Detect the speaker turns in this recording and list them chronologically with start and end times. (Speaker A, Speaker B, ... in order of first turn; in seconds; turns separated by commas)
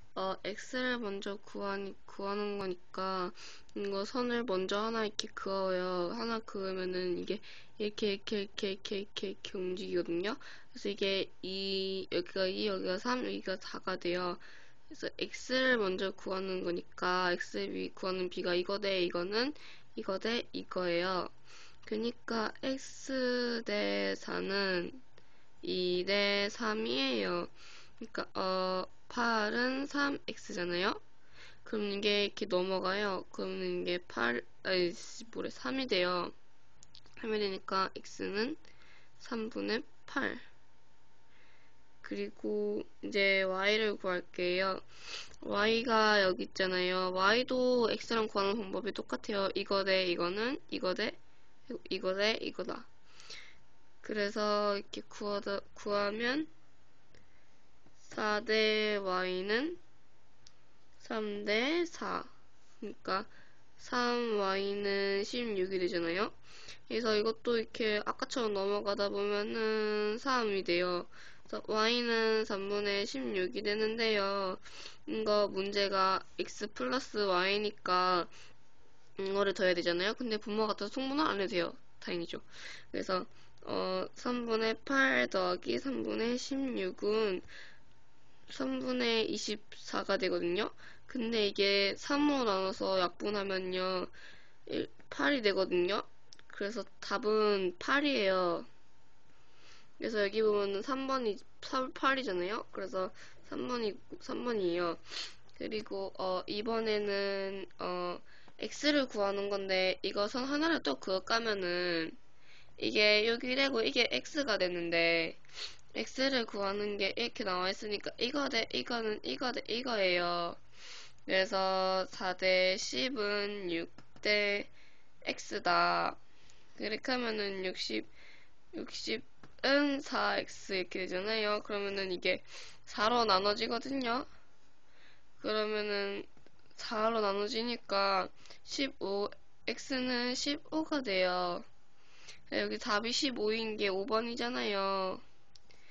Speaker A: 0.1-21.3, Speaker A: 21.8-25.0, Speaker A: 25.6-31.0, Speaker A: 31.6-36.3, Speaker A: 37.2-38.6, Speaker A: 39.2-40.5, Speaker A: 42.0-44.8, Speaker A: 45.4-52.9, Speaker A: 54.0-56.5, Speaker A: 58.0-59.8, Speaker A: 61.0-66.3, Speaker A: 66.9-78.3, Speaker A: 79.2-87.5, Speaker A: 88.5-94.1, Speaker A: 94.7-98.7, Speaker A: 100.0-112.2, Speaker A: 112.8-115.4, Speaker A: 115.9-120.6, Speaker A: 121.3-124.7, Speaker A: 125.2-126.2, Speaker A: 126.8-128.1, Speaker A: 128.7-134.3, Speaker A: 135.4-141.7, Speaker A: 142.5-145.2